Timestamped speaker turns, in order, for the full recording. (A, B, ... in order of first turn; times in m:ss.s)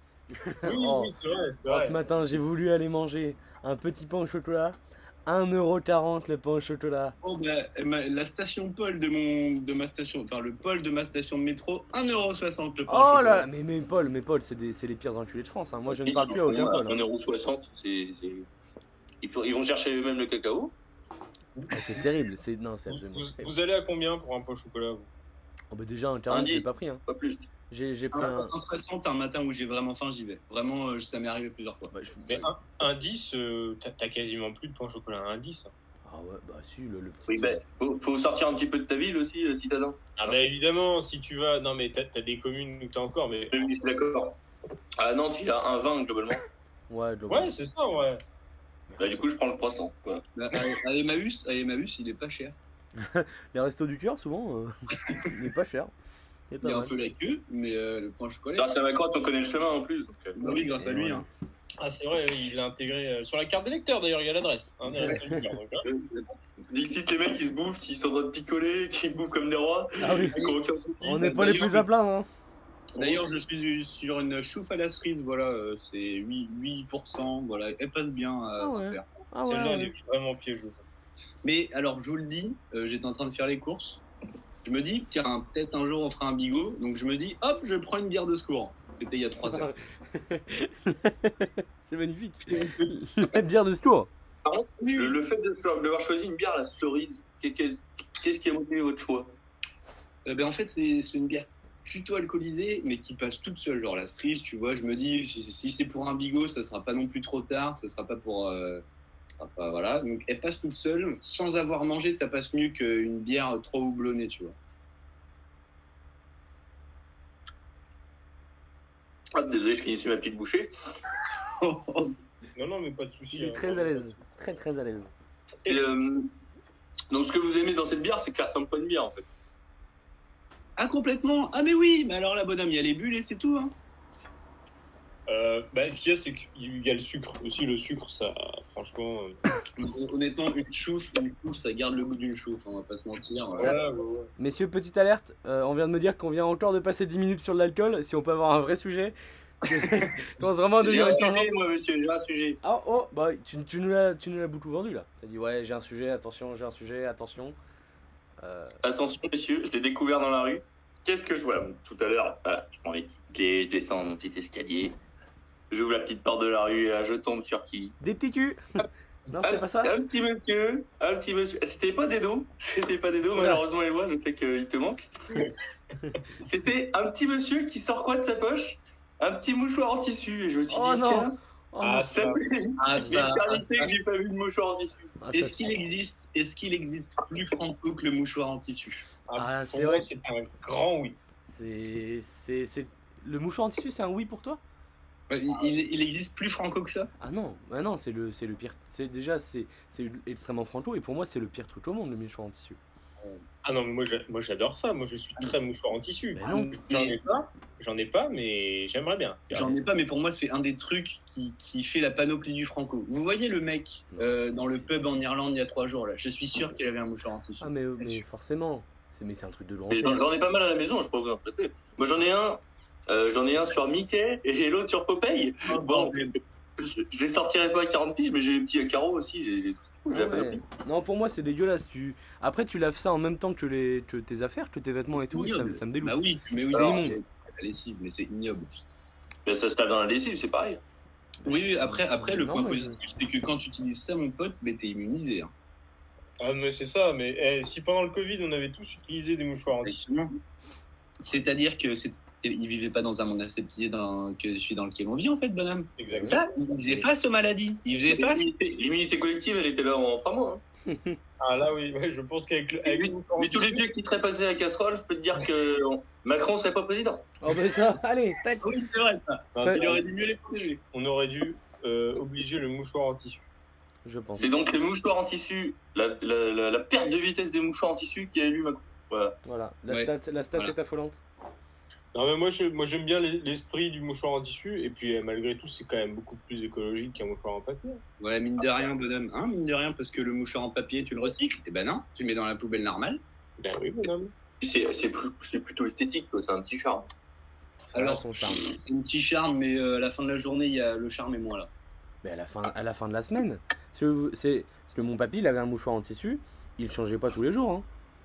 0:00.4-0:01.1 A
0:00.6-0:02.0 B
0:01.7-0:07.2 A
0:07.2-0:13.5 C
0:12.9-0:17.0 A
0:15.9-0:18.5 D
0:19.2-0:20.7 D
0:21.7-0:23.5 A
0:22.9-0:25.1 B
0:25.7-0:27.0 A
0:26.3-0:27.5 D
0:27.7-0:28.6 A
0:28.1-0:31.9 C
0:31.9-0:32.5 A
0:32.3-0:35.7 B
0:36.1-0:37.6 A
0:37.3-0:40.0 D
0:40.2-0:43.6 B
0:43.5-0:44.4 D
0:45.0-0:46.4 D
0:46.9-0:47.5 A
0:47.3-0:48.2 B
0:48.9-0:49.2 A
0:49.0-0:50.2 D
0:50.4-0:52.6 C
0:53.0-0:55.9 A
0:56.5-0:56.9 A
0:56.6-0:58.7 C
0:58.6-1:00.4 D
1:00.4-1:01.2 C
1:00.5-1:01.3 A
1:01.8-1:05.9 B
1:04.9-1:05.4 A
1:05.8-1:11.5 D
1:10.0-1:10.4 A
1:11.0-1:12.3 A
1:11.2-1:11.8 B
1:11.4-1:11.7 C
1:13.0-1:19.1 C
1:13.0-1:13.2 B
1:18.6-1:19.9 A
1:19.4-1:20.8 B
1:21.4-1:24.0 C
1:24.6-1:29.7 C
1:29.5-1:34.1 A
1:32.5-1:32.9 C
1:34.4-1:39.4 D
1:40.2-1:48.8 C
1:49.4-1:54.6 C
1:59.3-2:00.7 D
2:01.6-2:02.1 C
2:02.6-2:04.1 B
2:03.3-2:05.1 A
2:05.7-2:06.3 D
2:07.1-2:09.3 D
2:10.8-2:13.7 C
2:15.3-2:19.4 B
2:19.8-2:23.8 C
2:23.6-2:24.3 B
2:24.4-2:31.5 A
2:30.8-2:32.6 D
2:32.6-2:37.6 A
2:38.4-2:38.8 A
2:38.8-2:45.0 D
2:45.7-2:48.0 D
2:48.0-2:48.6 A
2:49.3-2:50.0 A
2:49.4-2:55.4 D
2:56.4-3:01.4 D
3:00.7-3:02.1 A
3:01.8-3:02.4 B
3:02.1-3:05.2 D
3:02.8-3:03.9 C
3:05.2-3:05.7 A
3:05.3-3:09.1 C
3:09.3-3:11.2 B
3:09.4-3:10.1 A
3:11.5-3:14.6 A
3:15.3-3:17.1 C
3:17.2-3:22.8 A
3:23.6-3:29.8 B
3:26.4-3:26.8 A
3:29.5-3:37.7 C
3:34.1-3:35.1 A
3:37.6-3:40.3 A
3:39.9-3:50.6 D
3:45.7-3:46.3 C
3:50.1-3:57.2 A
3:55.3-3:58.7 C
3:56.7-3:57.1 D
3:59.5-4:00.8 D
4:01.4-4:03.0 A
4:01.4-4:05.5 C
4:06.4-4:10.1 B
4:09.8-4:10.4 C
4:11.2-4:18.5 C
4:16.0-4:16.4 B
4:16.1-4:17.0 A
4:18.1-4:20.6 D
4:20.9-4:21.2 A
4:21.4-4:23.8 B
4:22.8-4:27.3 D
4:27.4-4:28.7 A
4:28.6-4:30.8 C
4:29.6-4:30.0 B
4:29.6-4:29.9 A
4:30.9-4:33.5 B
4:34.0-4:34.5 A
4:34.4-4:39.4 D
4:39.4-4:41.2 A
4:39.9-4:40.8 C
4:42.1-4:48.0 B
4:48.2-4:53.2 C
4:48.6-4:48.9 B
4:53.6-4:54.3 B
4:54.6-4:57.1 D
4:57.9-4:58.6 A
4:57.9-5:01.7 C
5:02.2-5:07.8 A